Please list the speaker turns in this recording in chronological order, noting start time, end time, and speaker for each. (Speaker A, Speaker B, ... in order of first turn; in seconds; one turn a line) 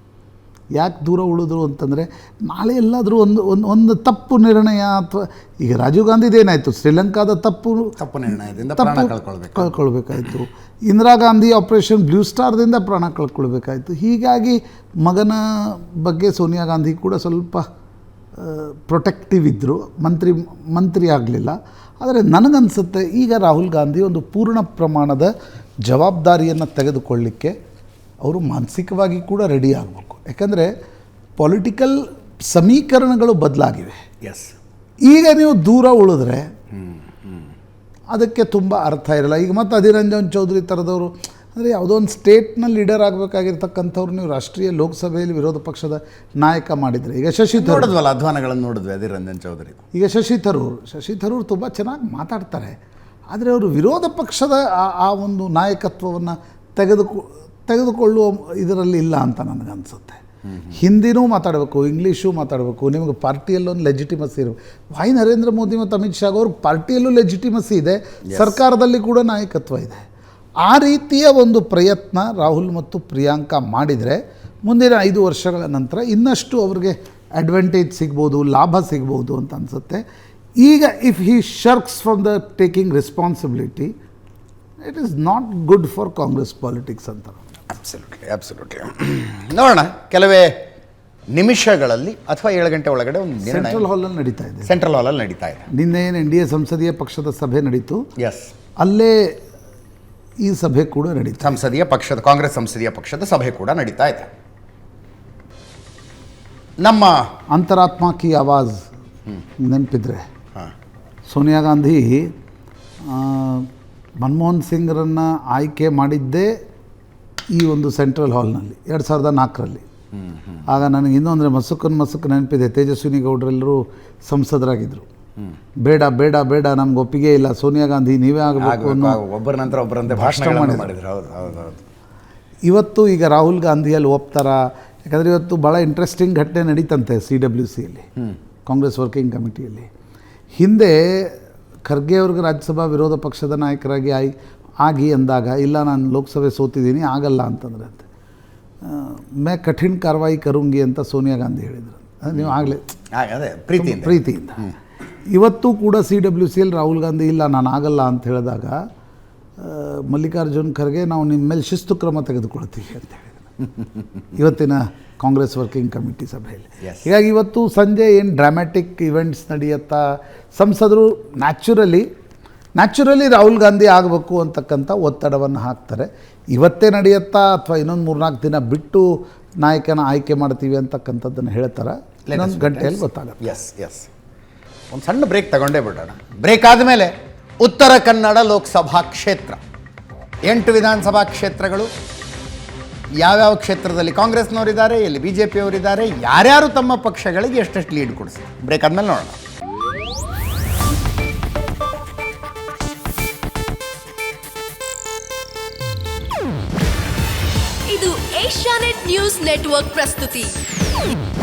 Speaker A: 0.8-17.6
Speaker B: 8.0-9.8
Speaker A: 18.4-25.3
Speaker A: 25.9-27.6
Speaker A: 28.2-30.7
Speaker A: 31.4-34.0
Speaker B: 34.2-34.5
Speaker A: 35.1-36.5
Speaker A: 38.1-48.0
Speaker B: 47.5-49.8
Speaker A: 49.9-52.8
Speaker A: 53.3-60.2
Speaker B: 60.5-60.8
Speaker A: 60.7-70.0
Speaker B: 68.3-68.6
Speaker A: 70.6-80.0
Speaker A: 80.6-83.9
Speaker A: 84.8-87.5
Speaker B: 87.7-90.5
Speaker B: 91.3-93.9
Speaker A: 93.5-94.7
Speaker B: 94.7-95.7
Speaker A: 95.7-98.0
Speaker B: 98.2-98.5
Speaker A: 98.8-99.3
Speaker A: 100.4-101.5
Speaker B: 101.4-104.3
Speaker B: 106.8-107.2
Speaker A: 107.5-108.8
Speaker A: 109.6-110.2
Speaker A: 111.3-112.3
Speaker A: 113.1-113.7
Speaker A: 114.2-116.5
Speaker A: 117.5-119.8
Speaker A: 120.7-125.1
Speaker A: 125.8-129.2
Speaker B: 128.6-131.8
Speaker A: 130.1-130.9
Speaker A: 132.7-138.1
Speaker A: 138.7-139.9
Speaker A: 140.6-148.1
Speaker A: 148.8-152.9
Speaker B: 152.3-152.6
Speaker B: 153.2-154.7
Speaker A: 153.8-154.6
Speaker A: 155.3-158.8
Speaker A: 159.6-163.4
Speaker A: 164.3-172.1
Speaker A: 172.8-183.5
Speaker B: 182.3-184.1
Speaker B: 184.9-189.6
Speaker B: 190.5-191.9
Speaker B: 193.2-199.4
Speaker C: 207.9-210.6